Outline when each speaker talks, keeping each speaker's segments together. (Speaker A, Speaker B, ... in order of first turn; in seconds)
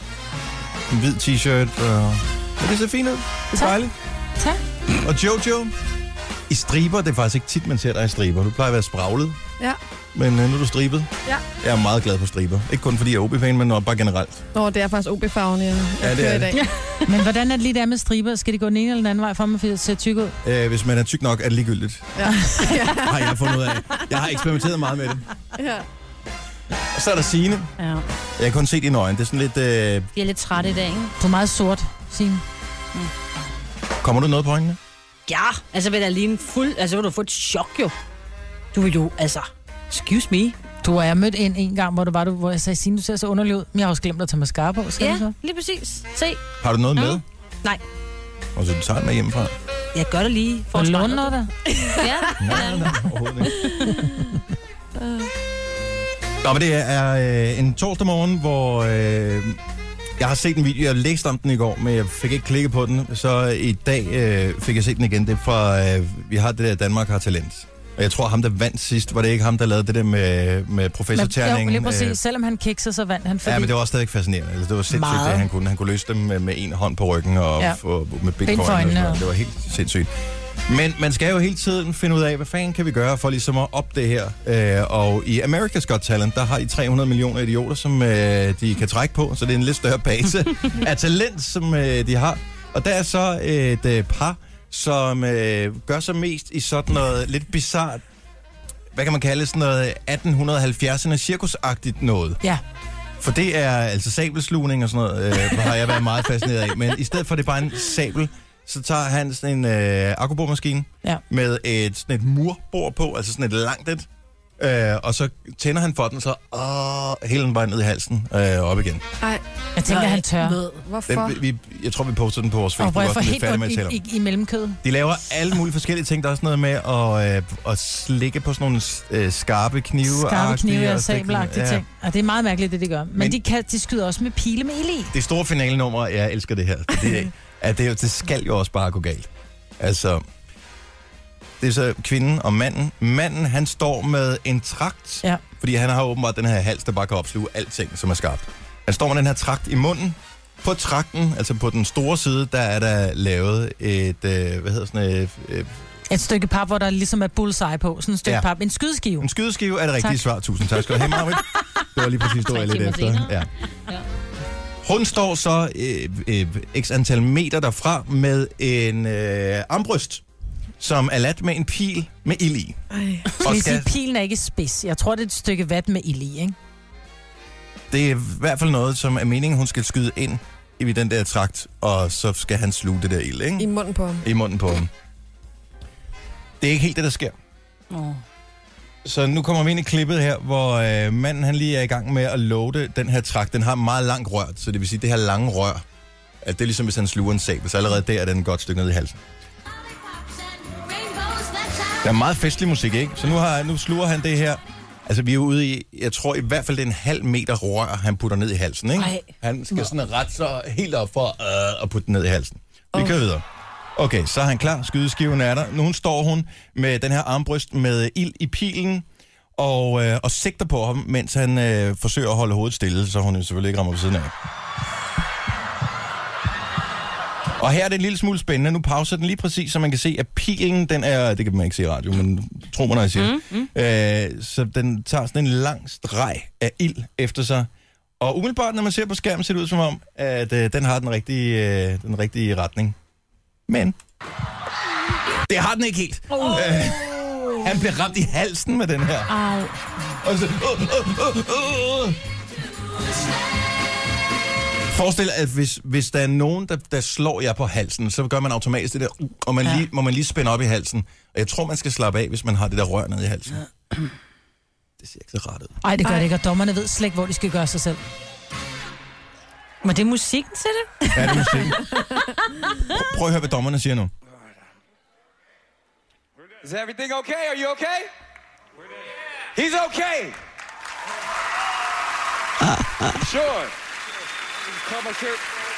Speaker A: 0.9-3.9, 5.0-5.7, 6.5-9.4, 10.1-14.4, 16.0-16.5, 20.4-22.1, 23.0-25.2, 26.9-27.7, 28.4-30.1, 34.0-34.8, 46.6-47.2, 48.5-49.5, 52.4-53.6, 56.4-59.6, 60.2-72.2, 73.4-80.1, 80.7-98.0, 98.9-102.4, 103.2-114.1, 114.6-119.0, 121.1-124.0, 124.8-131.8, 135.1-140.2, 141.6-155.7, 159.2-163.5, 164.8-170.2, 170.8-172.8, 173.4-173.9, 177.9-183.7, 184.2-184.9, 186.6-187.3, 189.0-195.8, 196.4-199.2, 202.0-213.4, 213.9-219.1, 219.6-224.3, 227.6-237.7, 238.2-242.9, 243.7-243.9, 245.4-249.3, 250.2-252.2, 254.9-263.6, 265.0-265.8, 271.1-271.9, 272.9-274.1, 282.8-283.1
Speaker B: 14.5-16.6, 22.1-23.7, 25.6-25.8, 55.0-55.3, 119.2-121.4, 172.9-173.3, 183.6-184.2
Speaker C: 17.1-20.4, 31.2-32.4, 40.8-45.3, 50.7-51.5, 71.1-73.7, 74.9-75.5, 78.4-79.2, 119.8-120.6, 122.8-124.8, 130.0-135.1, 156.1-159.3, 173.4-176.5, 265.8-268.0
Speaker D: 27.8-28.0, 30.1-31.1, 35.3-37.9, 38.7-40.5, 45.0-46.4, 47.0-47.8, 49.9-51.4, 51.9-53.9, 162.4-164.0, 187.9-188.2, 209.0-209.2, 233.2-233.7, 249.3-249.7, 269.8-272.5
Speaker E: 276.6-278.1, 279.5-280.4, 283.2-283.7, 284.7-285.4